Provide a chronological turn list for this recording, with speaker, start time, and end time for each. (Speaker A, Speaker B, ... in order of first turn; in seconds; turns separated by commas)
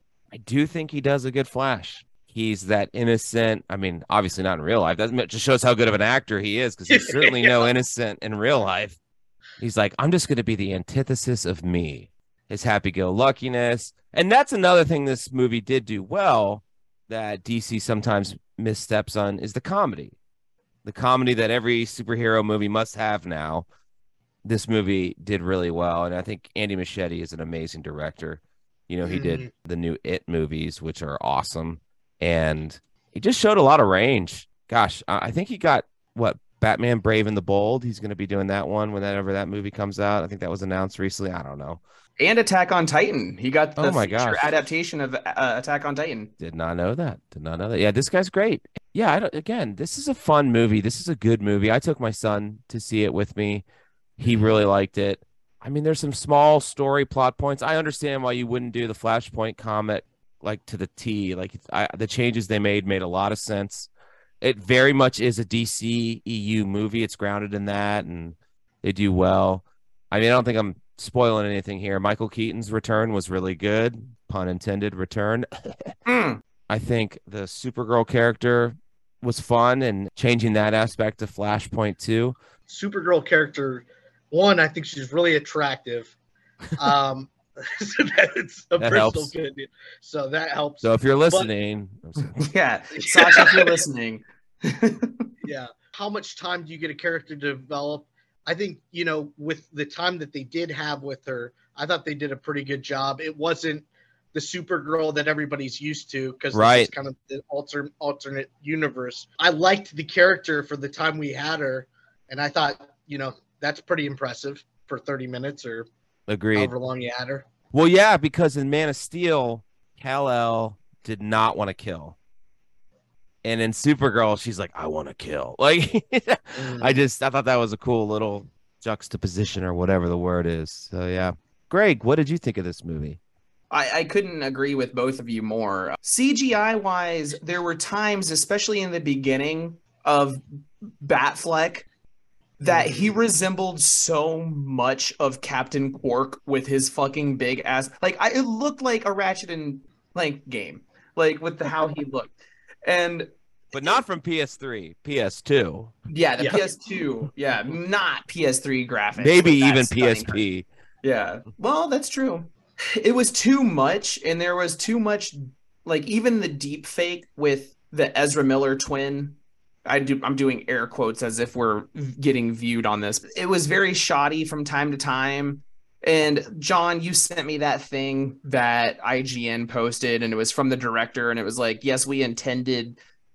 Speaker A: 0.3-9.0, Speaker B: 6.9-7.7, Speaker A: 9.6-20.2, Speaker A: 20.9-23.7, Speaker A: 24.4-41.8, Speaker B: 29.0-29.5, Speaker C: 42.2-46.3, Speaker A: 43.8-44.5, Speaker A: 46.4-53.6, Speaker A: 54.2-63.9, Speaker A: 64.4-76.0, Speaker C: 76.1-76.4, Speaker A: 76.7-82.4, Speaker B: 82.7-86.1, Speaker B: 86.8-91.5, Speaker A: 88.8-89.3, Speaker A: 90.8-92.5, Speaker C: 92.4-95.2, Speaker B: 93.1-93.7, Speaker B: 95.4-115.9, Speaker A: 106.5-106.9, Speaker A: 116.3-116.7, Speaker B: 116.5-117.5, Speaker A: 117.7-122.2, Speaker A: 123.4-133.2, Speaker B: 126.6-127.0, Speaker C: 133.7-140.4, Speaker C: 141.0-141.9, Speaker C: 142.6-152.3, Speaker B: 142.7-143.2, Speaker C: 152.9-153.3, Speaker A: 153.7-155.9, Speaker C: 156.1-160.4, Speaker A: 159.2-160.7, Speaker C: 161.0-183.0